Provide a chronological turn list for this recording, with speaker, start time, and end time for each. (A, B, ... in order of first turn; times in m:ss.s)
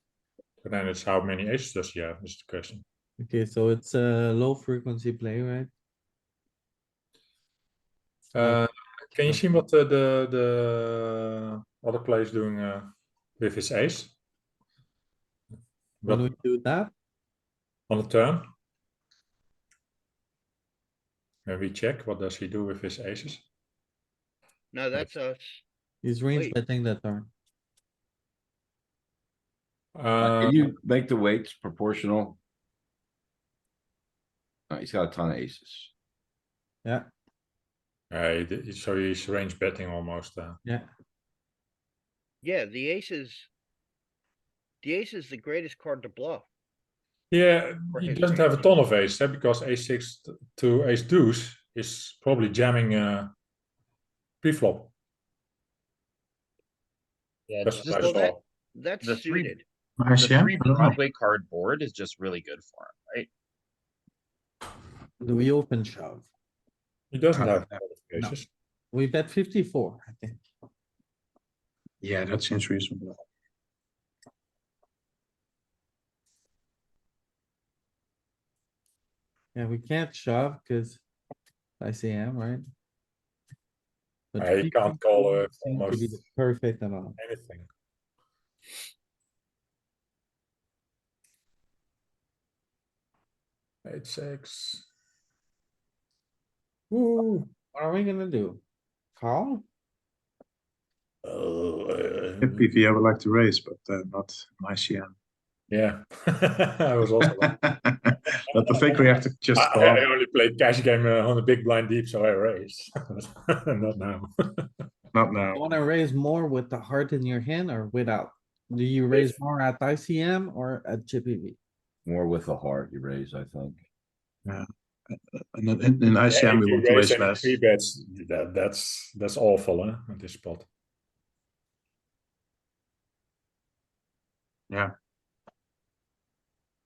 0:00.6-0:02.8 A
0:03.2-0:05.7 B
0:08.3-0:14.1 A
0:16.0-0:16.3 A
0:16.1-0:16.9 B
0:17.9-0:18.5 A
0:21.5-0:23.4 A
0:24.7-0:25.6 C
0:26.0-0:27.3 B
0:30.0-0:30.7 A
0:30.2-0:32.4 D
0:34.7-0:35.9 D
0:38.1-0:40.6 A
0:42.4-0:43.5 C
0:44.8-0:46.5 C
0:47.3-0:53.3 A
0:47.9-0:48.7 C
0:54.4-0:54.9 A
0:57.5-0:58.1 E
0:57.6-0:58.4 A
0:57.8-0:59.6 C
0:59.0-0:59.5 E
1:00.0-1:01.0 F
1:00.2-1:03.3 E
1:05.2-1:06.3 B
1:07.1-1:08.5 A
1:07.3-1:07.7 F
1:08.9-1:10.4 B
1:12.0-1:13.2 F
1:19.5-1:21.0 B
1:21.8-1:22.7 B
1:24.3-1:27.2 B
1:24.4-1:26.2 A
1:27.2-1:27.7 A
1:33.8-1:34.9 A
1:36.9-1:37.5 A
1:37.7-1:38.6 B
1:39.2-1:39.6 B
1:41.2-1:42.7 A
1:42.4-1:45.1 F
1:45.7-1:47.6 A
1:47.2-1:50.0 F
1:49.5-1:54.7 A
1:55.1-1:55.6 F
1:55.5-2:01.6 B
2:02.1-2:03.8 D
2:04.4-2:07.6 F
2:06.3-2:10.7 A